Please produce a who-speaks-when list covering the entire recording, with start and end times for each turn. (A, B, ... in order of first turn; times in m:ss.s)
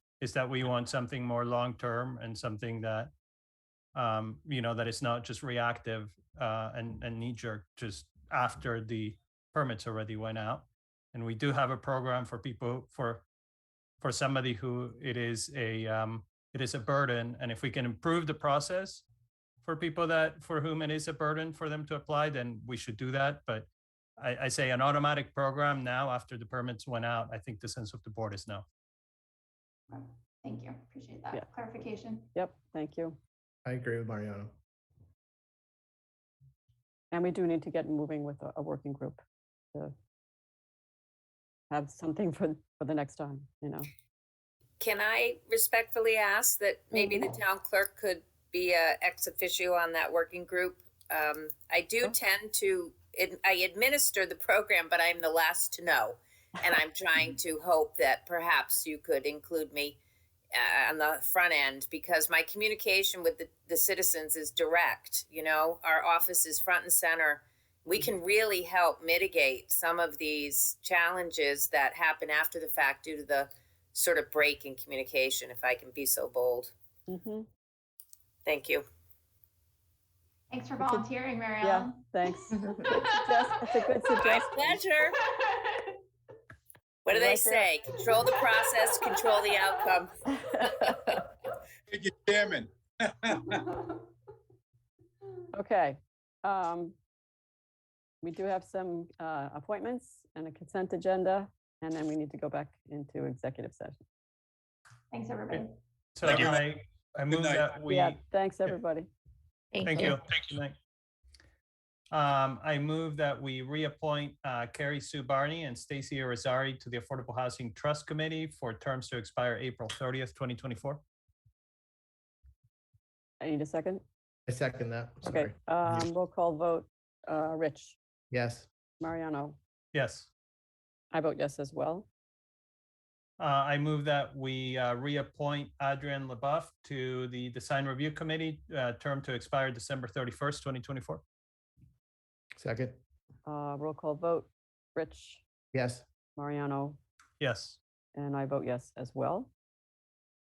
0:00.2-0:03.1 A
0:03.9-0:13.2 A
0:14.0-0:19.0 A
0:19.6-0:28.6 A
0:29.9-0:32.3 B
0:32.3-0:33.2 C
0:33.6-0:34.5 D
0:37.1-0:39.2 C
0:41.7-0:43.9 C
0:44.8-1:00.0 E
0:46.9-0:47.3 C
1:00.5-1:16.7 E
1:17.1-1:17.5 C
1:18.4-1:18.8 E
1:20.5-1:22.5 B
1:21.6-1:24.8 C
1:24.2-1:25.2 E
1:27.0-1:30.1 E
1:27.1-1:27.7 C
1:30.4-1:31.2 C
1:31.9-1:33.8 F
1:35.5-1:36.9 C
1:38.2-1:44.0 C
1:45.1-1:45.7 B
1:46.2-1:48.2 A
1:46.2-1:46.7 F
1:47.3-1:47.7 F
1:47.9-1:49.1 C
1:49.7-1:50.2 B
1:49.8-1:50.8 A
1:52.1-2:01.0 A
2:03.4-2:04.0 C
2:04.5-2:06.1 D
2:05.3-2:08.0 C
2:08.3-2:08.7 D
2:09.0-2:09.6 C
2:09.9-2:10.3 A
2:11.1-2:12.1 C
2:13.4-2:21.2 A
2:22.6-2:23.0 D
2:23.4-2:25.4 C
2:25.7-2:26.0 D
2:26.4-2:27.0 C
2:27.4-2:27.8 A
2:28.1-2:29.5 C